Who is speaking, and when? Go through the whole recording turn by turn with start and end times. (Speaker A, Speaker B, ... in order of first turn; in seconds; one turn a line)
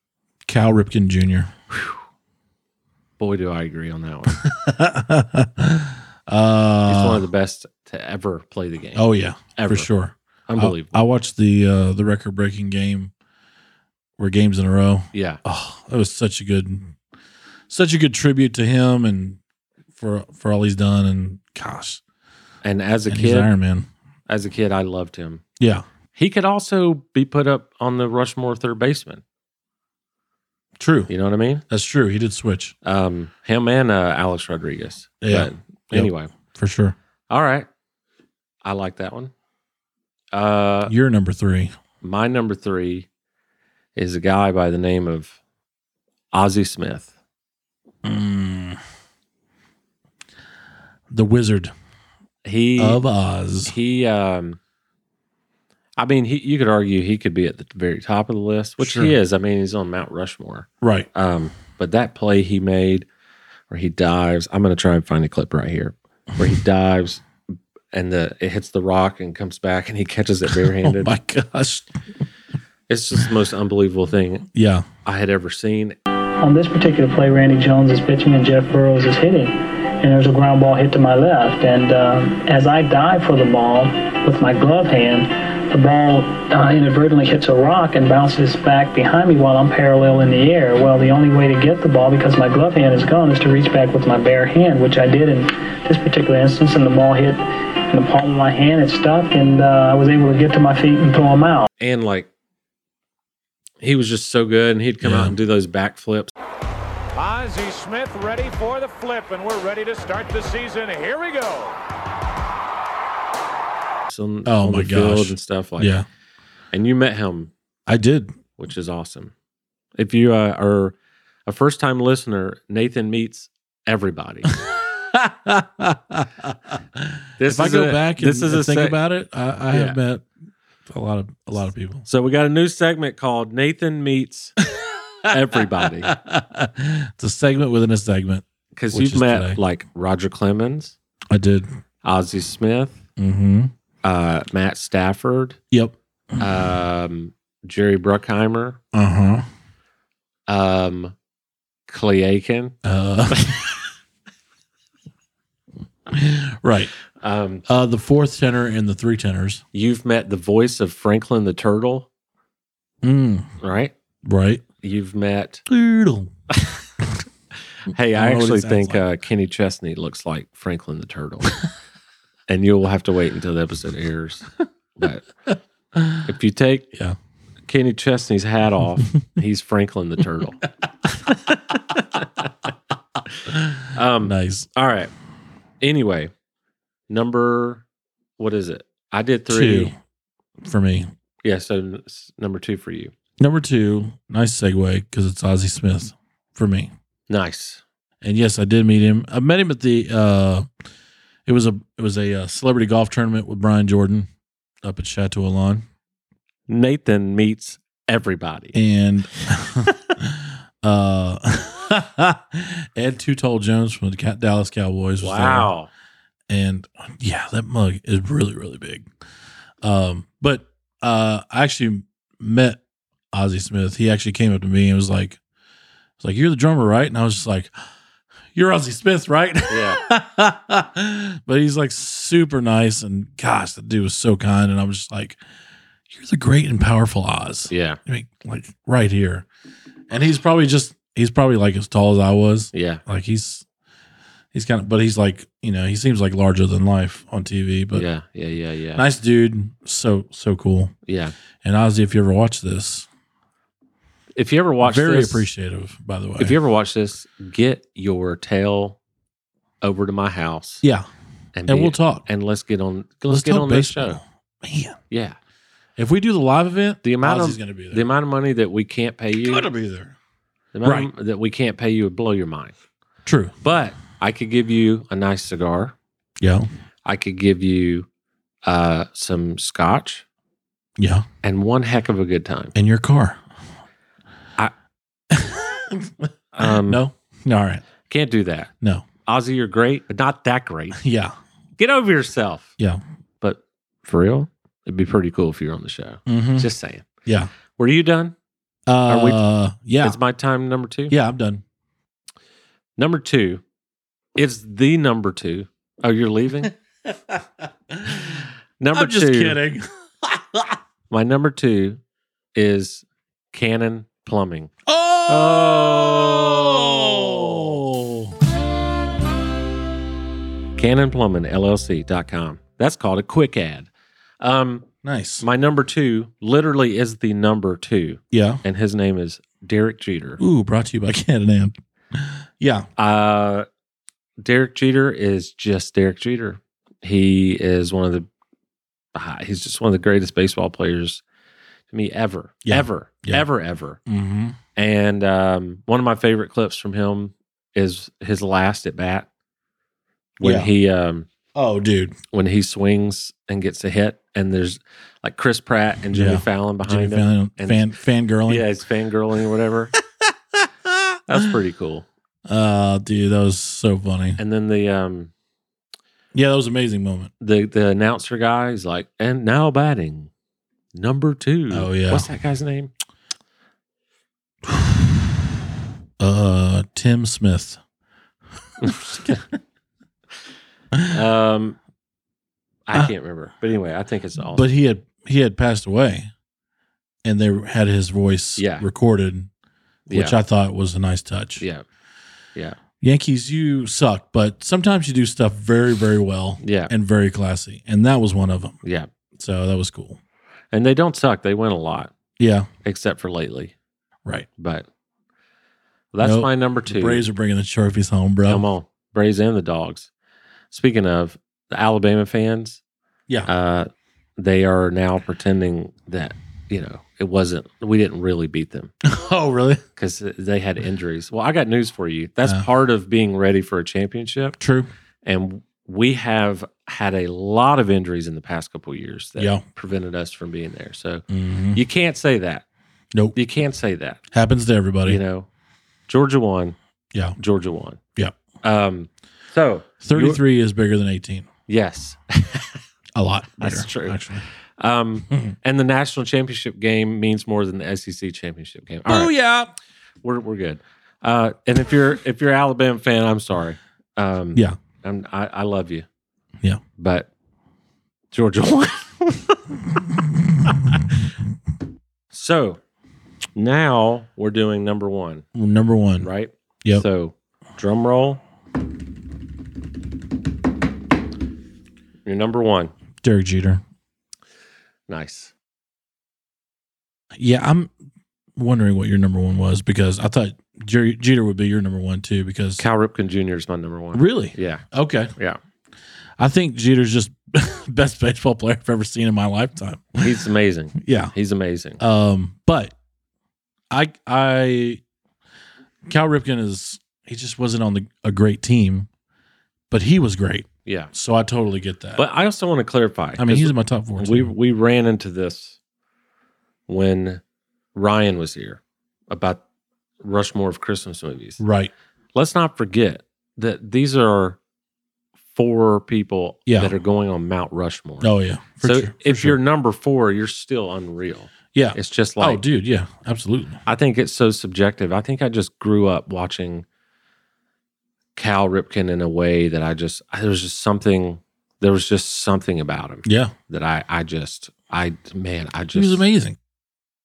Speaker A: 0.5-1.5
Speaker B: 3.2-4.4
Speaker A: 4.3-7.3
Speaker B: 6.9-9.9
Speaker A: 8.9-13.1
Speaker B: 10.5-10.9
Speaker A: 14.2-16.9
Speaker B: 15.1-15.4
Speaker A: 17.7-19.4
Speaker A: 19.9-22.0
Speaker B: 22.6-23.5
Speaker A: 23.1-23.9
Speaker B: 24.3-25.4
Speaker A: 25.6-25.9
Speaker B: 26.1-29.2
Speaker A: 30.8-31.1
Speaker B: 31.1-31.6
Speaker A: 31.7-32.8
Speaker B: 32.8-36.3
Speaker A: 35.2-36.9
Speaker B: 37.3-37.7
Speaker B: 38.6-39.3
Speaker B: 40.3-40.9
Speaker A: 40.9-41.7
Speaker B: 42.0-43.1
Speaker B: 44.0-45.4
Speaker B: 46.3-47.1
Speaker A: 48.0-48.8
Speaker A: 51.1-51.7
Speaker B: 52.4-53.0
Speaker A: 52.8-53.7
Speaker B: 53.6-54.6
Speaker B: 56.0-63.0
Speaker A: 58.8-59.1
Speaker A: 60.8-61.1
Speaker B: 63.7-71.1
Speaker A: 70.6-71.9
Speaker B: 72.9-74.5
Speaker A: 74.5-74.9
Speaker B: 75.0-76.0
Speaker C: 76.4-101.7
Speaker B: 101.8-102.3
Speaker B: 103.8-106.3
Speaker A: 105.0-105.4
Speaker D: 107.1-111.8
Speaker B: 114.1-116.0
Speaker A: 114.4-116.0
Speaker B: 116.7-117.5
Speaker A: 117.9-118.4
Speaker B: 118.6-119.3
Speaker B: 120.0-120.9
Speaker B: 121.5-124.5
Speaker A: 124.7-130.2
Speaker B: 127.4-129.0
Speaker B: 129.7-130.0
Speaker A: 130.9-132.1
Speaker B: 132.1-134.5
Speaker A: 134.7-135.3
Speaker B: 135.2-136.1
Speaker A: 135.8-139.6
Speaker B: 138.8-140.9
Speaker A: 141.3-141.7
Speaker B: 142.0-143.0
Speaker A: 143.2-143.7
Speaker B: 144.0-145.6
Speaker B: 146.4-148.8
Speaker A: 148.9-149.5
Speaker B: 150.5-151.1
Speaker B: 151.9-152.8
Speaker A: 152.8-153.8
Speaker B: 153.3-153.6
Speaker A: 156.1-156.9
Speaker B: 157.2-157.6
Speaker A: 157.7-159.6
Speaker B: 159.7-162.1
Speaker A: 163.0-163.5
Speaker B: 163.6-163.9
Speaker A: 164.2-164.6
Speaker B: 164.8-165.6
Speaker A: 165.7-166.3
Speaker B: 166.5-166.8
Speaker B: 167.9-171.6
Speaker A: 168.1-169.0
Speaker B: 172.5-175.3
Speaker A: 175.9-176.2
Speaker B: 176.2-176.9
Speaker B: 177.7-180.6
Speaker A: 181.3-181.5
Speaker B: 181.9-182.5
Speaker A: 183.5-184.7
Speaker B: 183.9-185.1
Speaker B: 185.8-186.3
Speaker B: 187.1-187.8
Speaker B: 188.4-189.9
Speaker A: 189.5-189.9
Speaker A: 190.6-191.1
Speaker B: 191.4-193.1
Speaker A: 193.4-196.9
Speaker B: 197.3-197.8
Speaker A: 198.2-200.7
Speaker A: 201.5-204.3
Speaker A: 204.8-205.8
Speaker B: 206.7-208.8
Speaker A: 208.7-215.7
Speaker B: 215.2-215.9
Speaker A: 216.5-219.1
Speaker A: 219.8-222.8
Speaker A: 223.3-225.4
Speaker A: 226.2-227.8
Speaker A: 228.5-235.4
Speaker B: 229.7-230.0
Speaker A: 236.1-239.5
Speaker B: 237.7-238.0
Speaker A: 240.1-243.6
Speaker B: 242.7-243.0
Speaker A: 244.5-248.1
Speaker B: 247.9-249.1
Speaker A: 248.9-250.9
Speaker B: 251.1-251.3
Speaker A: 251.6-253.1
Speaker B: 254.3-255.5
Speaker A: 254.8-256.6
Speaker B: 256.4-259.0
Speaker B: 259.8-260.8
Speaker A: 260.8-261.1
Speaker B: 261.5-264.2
Speaker A: 261.7-262.2
Speaker A: 263.3-265.0
Speaker B: 265.1-265.4
Speaker A: 266.0-268.0
Speaker B: 267.0-269.7
Speaker A: 269.4-270.1
Speaker B: 270.7-272.7
Speaker A: 270.8-271.1
Speaker A: 273.2-273.6
Speaker B: 273.6-275.9
Speaker A: 276.4-276.7
Speaker B: 277.0-278.1
Speaker B: 278.6-280.2
Speaker A: 281.0-281.2
Speaker B: 281.4-282.7
Speaker A: 282.8-283.4
Speaker A: 285.3-287.8
Speaker B: 286.5-287.0
Speaker B: 288.1-288.7
Speaker A: 288.8-289.1
Speaker B: 289.2-291.0
Speaker A: 291.0-291.3
Speaker B: 291.8-292.7
Speaker B: 293.4-297.0
Speaker A: 296.3-296.7
Speaker A: 297.2-297.5
Speaker B: 297.8-298.3
Speaker A: 298.9-300.2
Speaker B: 299.1-299.4
Speaker B: 300.0-301.2
Speaker A: 301.1-301.6
Speaker B: 303.0-303.6
Speaker B: 304.4-306.7
Speaker A: 307.0-310.8
Speaker B: 308.8-309.6
Speaker B: 311.1-312.0
Speaker B: 312.5-314.7
Speaker A: 314.9-318.3
Speaker B: 315.3-317.5
Speaker B: 320.8-323.9
Speaker B: 324.4-324.9
Speaker A: 325.0-325.4
Speaker B: 325.4-330.4
Speaker A: 328.3-328.6
Speaker A: 330.4-332.9
Speaker B: 333.0-333.7
Speaker B: 334.4-338.3
Speaker B: 339.1-341.2
Speaker B: 341.9-344.0
Speaker A: 342.6-343.5
Speaker A: 344.1-344.6
Speaker B: 344.8-349.3
Speaker B: 350.4-351.3
Speaker A: 350.4-350.7
Speaker A: 351.5-352.2
Speaker B: 352.3-357.9
Speaker A: 356.1-358.7
Speaker B: 358.5-359.9
Speaker A: 360.2-361.2
Speaker B: 361.3-362.1
Speaker A: 362.5-364.4
Speaker B: 364.4-365.3
Speaker A: 366.3-367.3
Speaker B: 367.4-370.3
Speaker B: 370.9-372.9
Speaker A: 371.7-372.3
Speaker A: 374.7-375.3
Speaker A: 376.2-377.8
Speaker B: 378.8-379.4
Speaker B: 381.1-381.8
Speaker B: 382.9-384.7
Speaker A: 384.4-386.3
Speaker A: 387.2-389.5
Speaker B: 388.6-388.9
Speaker B: 390.1-390.4
Speaker A: 390.1-391.6
Speaker B: 391.6-391.8
Speaker A: 393.0-398.8
Speaker B: 396.6-396.9
Speaker B: 398.8-399.1
Speaker A: 399.3-400.2
Speaker B: 400.7-402.1
Speaker A: 402.4-402.7
Speaker B: 402.8-403.7
Speaker B: 404.6-404.9
Speaker B: 406.1-407.2
Speaker A: 406.2-408.6
Speaker B: 408.5-410.1
Speaker B: 410.7-412.8
Speaker B: 413.4-418.9
Speaker A: 419.0-419.8
Speaker B: 420.0-424.6
Speaker A: 424.6-424.9
Speaker B: 425.2-432.7
Speaker A: 429.4-429.6
Speaker A: 431.3-431.8
Speaker B: 433.3-434.2
Speaker A: 434.3-435.2
Speaker B: 435.0-435.5
Speaker B: 436.1-436.8
Speaker B: 437.4-438.0
Speaker B: 438.6-440.4
Speaker A: 440.0-441.5
Speaker B: 441.7-442.8
Speaker A: 443.2-444.4
Speaker B: 443.6-449.3
Speaker A: 449.1-449.7
Speaker B: 450.2-456.1
Speaker B: 457.0-457.3
Speaker B: 458.3-459.8
Speaker B: 462.3-462.8
Speaker B: 463.6-465.5
Speaker A: 465.5-466.3
Speaker B: 466.2-468.4
Speaker B: 472.2-472.9
Speaker A: 473.2-473.8
Speaker B: 475.1-475.5
Speaker A: 477.3-477.9
Speaker A: 478.6-482.8
Speaker B: 482.8-484.8
Speaker A: 484.1-485.3
Speaker A: 486.4-490.4
Speaker B: 490.2-492.0
Speaker A: 491.0-491.3
Speaker A: 492.0-492.9
Speaker A: 493.9-495.0
Speaker A: 496.1-499.1
Speaker A: 499.9-502.2
Speaker B: 500.9-501.1
Speaker B: 502.2-505.8
Speaker A: 503.4-504.5
Speaker B: 506.9-507.4
Speaker B: 507.9-509.6
Speaker B: 510.2-511.6
Speaker A: 511.6-511.9
Speaker B: 512.3-514.6
Speaker B: 515.5-522.6
Speaker A: 516.7-516.9
Speaker A: 518.2-519.6
Speaker A: 521.7-523.8
Speaker B: 523.9-526.8
Speaker B: 528.4-536.2
Speaker A: 533.2-533.5
Speaker A: 535.9-536.6